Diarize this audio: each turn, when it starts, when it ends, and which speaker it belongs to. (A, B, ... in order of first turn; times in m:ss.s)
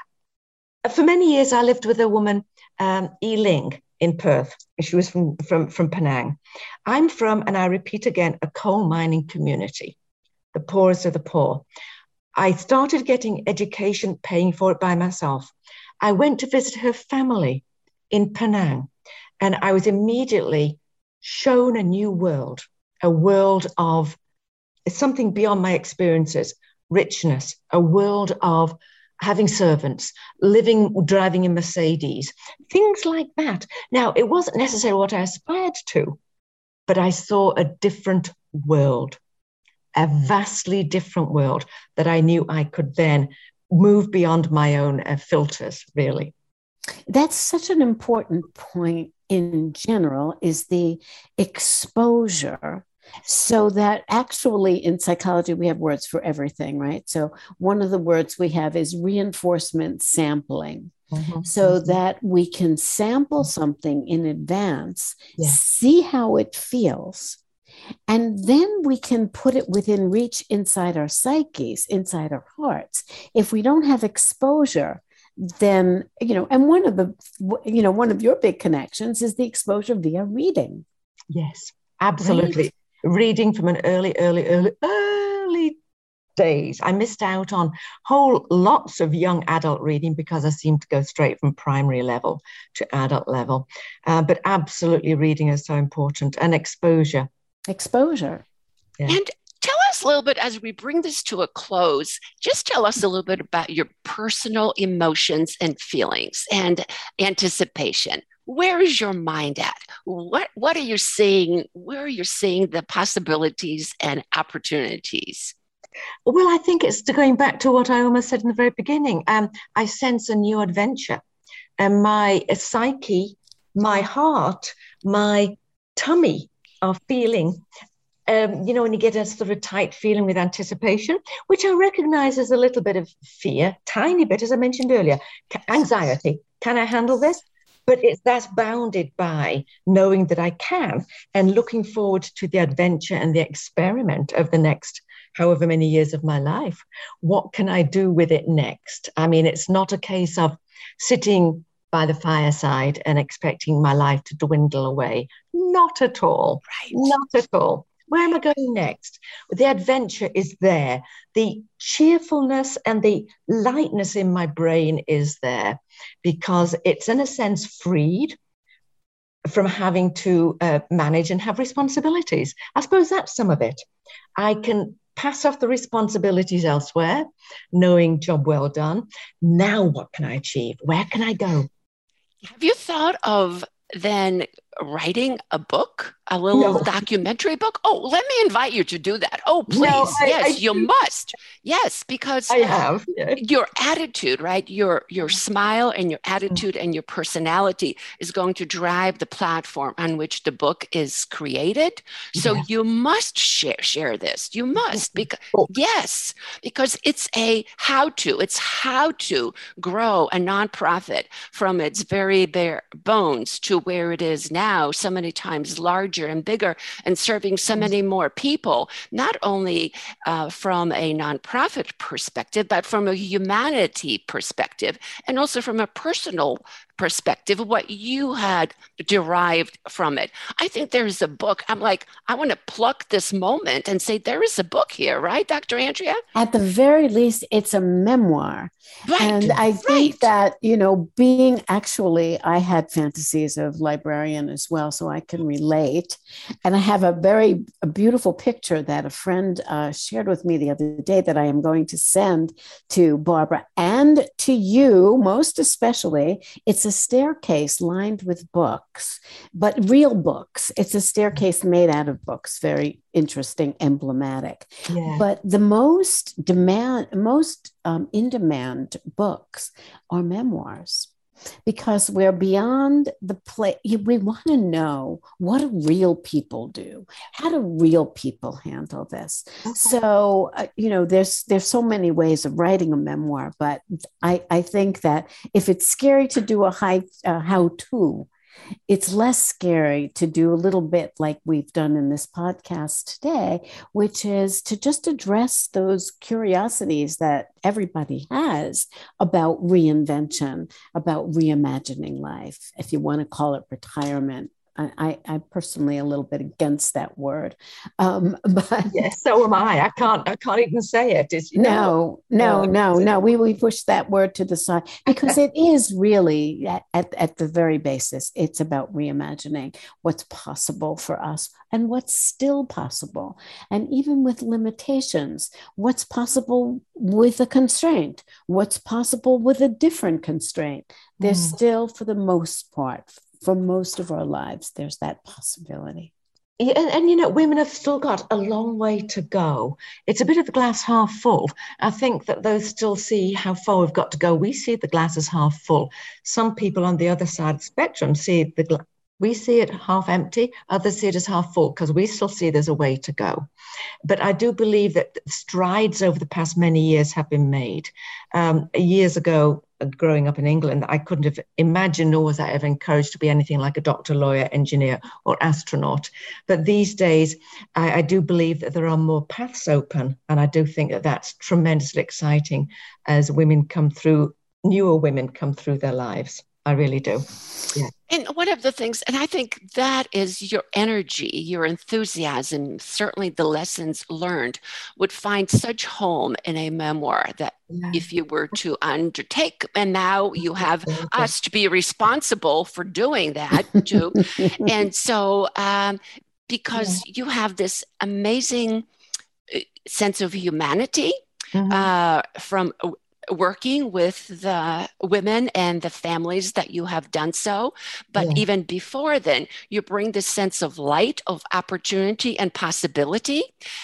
0:00.8-0:10.0 A
0:10.5-0:11.6 A
0:12.4-0:24.2 A
0:24.9-0:36.2 A
0:36.9-0:39.2 A
0:39.9-0:46.3 A
0:47.1-1:00.9 B
1:01.1-1:02.0 A
1:01.4-1:07.4 B
1:08.1-1:20.8 B
1:21.3-1:25.8 A
1:26.4-1:37.3 A
1:37.7-1:38.4 B
1:39.1-1:55.5 C
1:56.2-2:01.2 A
2:01.8-2:07.6 A
2:08.3-2:48.4 A
2:49.5-2:53.8 A
2:54.4-3:01.7 A
3:02.4-3:12.7 C
3:06.5-3:07.0 A
3:09.7-3:10.9 A
3:12.5-3:13.4 A
3:13.4-3:56.2 C
3:22.3-3:22.6 A
3:24.9-3:25.7 A
3:56.3-4:31.1 B
3:59.1-4:00.3 C
4:24.9-4:25.2 A
4:31.6-4:48.3 B
4:48.9-5:09.0 B
5:08.9-5:13.0 A
5:11.5-5:36.1 B
5:15.1-5:15.3 A
5:31.2-5:31.6 A
5:36.6-5:53.5 A
5:54.0-6:17.9 A
6:18.1-6:38.8 C
6:27.7-6:28.0 A
6:30.9-6:31.3 A
6:36.7-6:37.0 A
6:39.5-6:41.1 C
6:41.5-6:41.9 A
6:41.7-6:53.5 C
6:48.2-6:48.4 A